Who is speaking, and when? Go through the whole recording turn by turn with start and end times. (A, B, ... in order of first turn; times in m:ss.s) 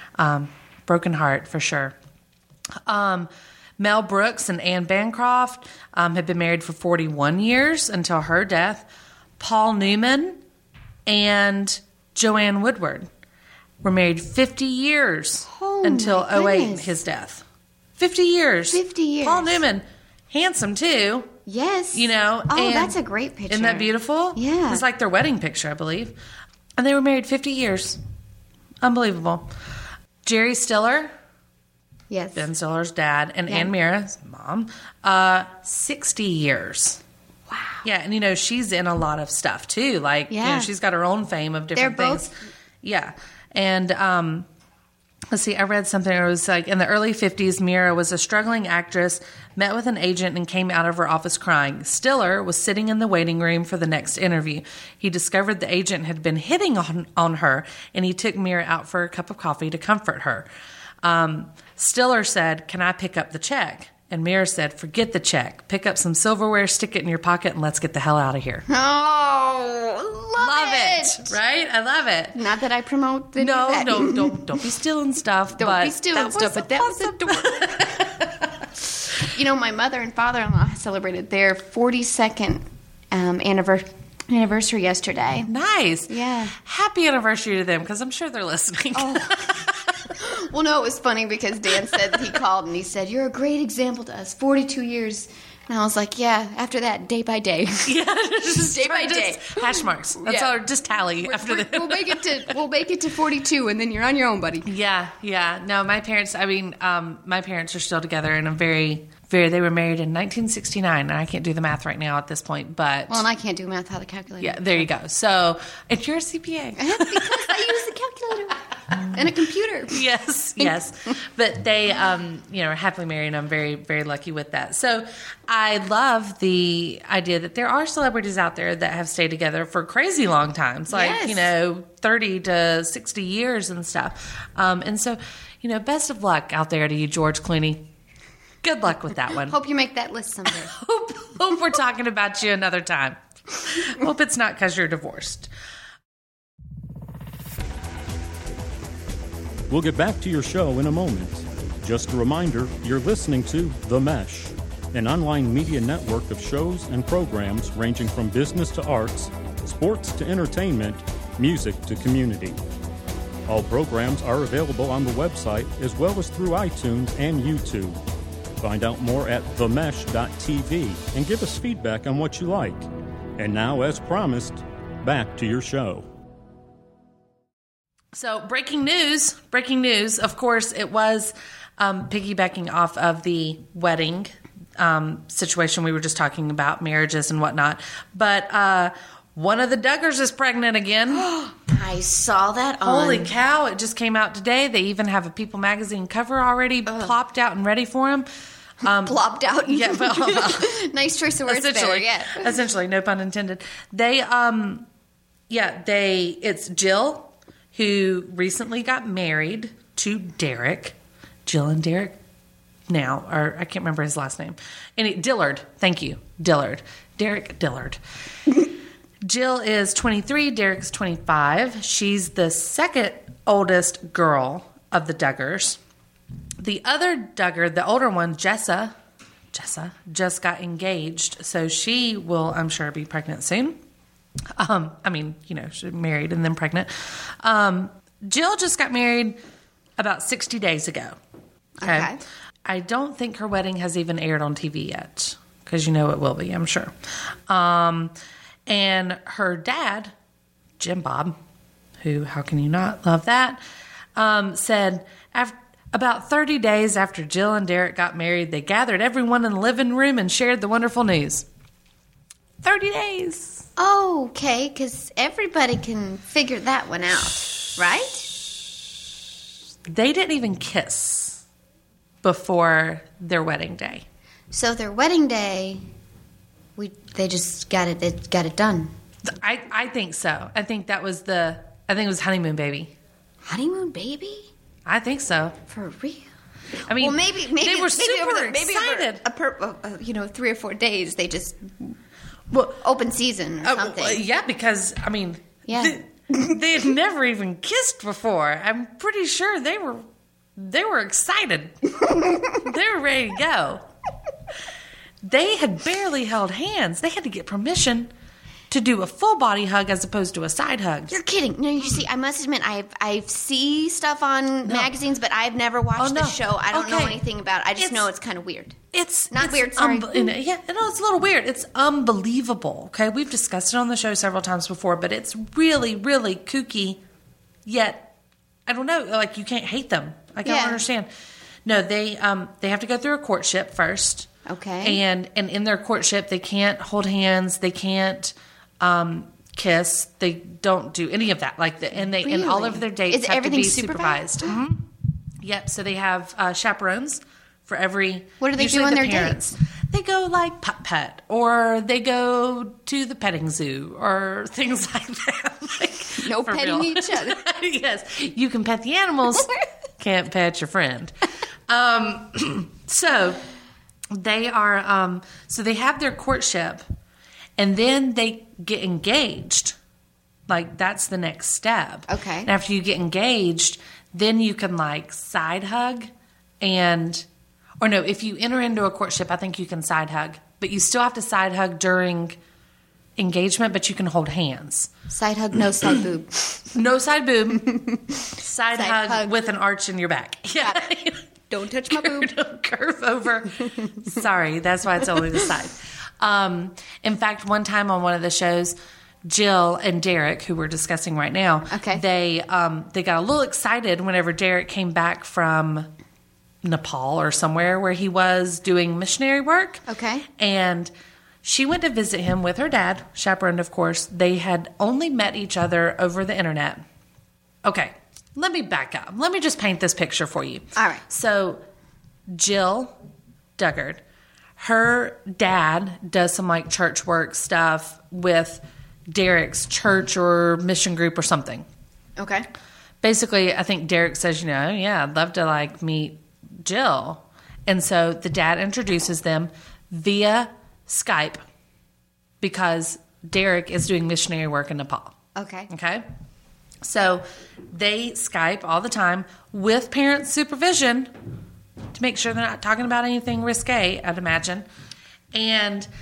0:00.2-0:02.0 A
0:02.8-0:08.8 A
0:09.4-0:10.4 A
0:11.0-0:13.1 A
0:13.8-0:17.4 A
0:15.4-0:16.9 B
0:18.0-0:21.3 A
0:18.7-0:19.6 B
0:21.4-0:24.8 B
0:21.9-0:23.0 A
0:23.5-0:26.2 A
0:26.8-0:28.0 A
0:28.8-0:29.5 A
0:30.2-0:31.1 A
0:32.1-0:32.5 B
0:32.3-0:37.0 A
0:37.5-0:37.8 B
0:37.8-0:44.5 A
0:40.3-0:40.7 B
0:41.7-0:42.3 B
0:45.3-1:00.5 A
1:01.0-1:08.6 A
1:08.7-1:11.3 B
1:10.4-1:12.4 A
1:12.3-1:14.5 B
1:13.4-1:18.6 A
1:15.6-1:17.9 B
1:19.2-1:25.5 B
1:25.5-1:30.1 A
1:26.1-1:26.5 B
1:28.9-1:29.6 B
1:30.1-1:37.9 B
1:37.8-1:42.5 A
1:38.6-1:40.6 B
1:41.1-1:44.7 B
1:44.6-1:53.2 A
1:53.1-1:54.9 B
1:54.4-1:57.8 A
1:56.8-2:00.0 B
1:59.9-2:17.9 A
2:10.9-2:11.5 B
2:18.6-2:19.6 A
2:19.4-2:20.7 B
2:20.5-2:25.5 A
2:29.7-2:42.6 C
2:43.5-2:48.0 C
2:48.6-2:52.8 C
2:53.4-2:56.1 C
2:58.1-3:11.2 A
3:11.1-3:13.3 B
3:12.8-3:18.3 A
3:16.8-3:17.1 B
3:18.8-3:20.8 A
3:18.8-3:22.5 B
3:21.5-3:24.9 A
3:25.5-3:32.2 A
3:32.9-3:38.0 A
3:39.2-3:45.8 A
3:46.6-3:49.0 A
3:49.5-3:53.8 A
3:54.5-3:59.4 A
4:00.0-4:01.2 A
4:01.8-4:02.2 B
4:01.8-4:02.1 A
4:02.6-4:06.9 A
4:07.5-4:08.1 A
4:08.7-4:10.1 A
4:10.8-4:11.4 A
4:12.0-4:13.6 A
4:14.1-4:21.5 A
4:22.6-4:23.6 A
4:23.8-4:28.3 B
4:29.9-4:31.4 A
4:32.2-4:34.0 A
4:34.5-4:35.8 B
4:36.8-4:38.9 B
4:39.2-4:42.9 A
4:43.4-4:44.5 B
4:44.8-4:45.6 A
4:45.7-4:46.3 B
4:46.9-4:49.2 A
4:46.9-4:51.9 B
4:52.5-4:52.8 A
4:52.8-4:54.2 B
4:53.6-5:03.8 A
4:55.7-4:56.5 B
5:05.2-5:08.1 A
5:08.7-5:11.1 A
5:11.1-5:18.8 B
5:14.6-5:14.9 A
5:16.0-5:17.2 A
5:17.8-5:18.1 A
5:18.9-5:27.0 A
5:19.3-5:20.3 B
5:27.6-5:28.1 A
5:28.6-5:31.1 A
5:30.4-5:30.8 B
5:31.6-5:34.3 A
5:34.4-5:35.0 B
5:34.8-5:44.9 A
5:42.0-5:44.5 B
5:45.4-6:01.1 A
5:48.4-5:49.4 B
5:56.2-5:57.4 B
6:01.7-6:03.4 A
6:04.1-6:06.8 A
6:07.6-6:09.8 A
6:10.5-6:17.2 A
6:12.1-6:12.5 B
6:17.8-6:22.4 A
6:23.2-6:24.9 A
6:25.1-6:26.6 B
6:26.7-6:27.8 A
6:28.3-6:31.2 A
6:28.7-6:29.3 B
6:30.6-6:30.8 B
6:31.5-6:32.3 B
6:31.8-6:45.9 A
6:41.7-6:42.0 B
6:46.6-6:49.8 A
6:49.9-6:50.2 B
6:50.4-6:50.9 A
6:51.4-6:56.8 A
6:57.6-7:01.6 A
7:00.8-7:01.0 B
7:02.3-7:02.9 A
7:03.6-7:04.0 A
7:04.6-7:11.6 A
7:12.2-7:12.5 B
7:13.0-7:21.4 A
7:22.4-7:25.2 A
7:25.3-7:25.7 B
7:25.7-7:26.0 A
7:26.8-7:31.1 A
7:31.9-7:34.6 A
7:35.3-7:35.9 A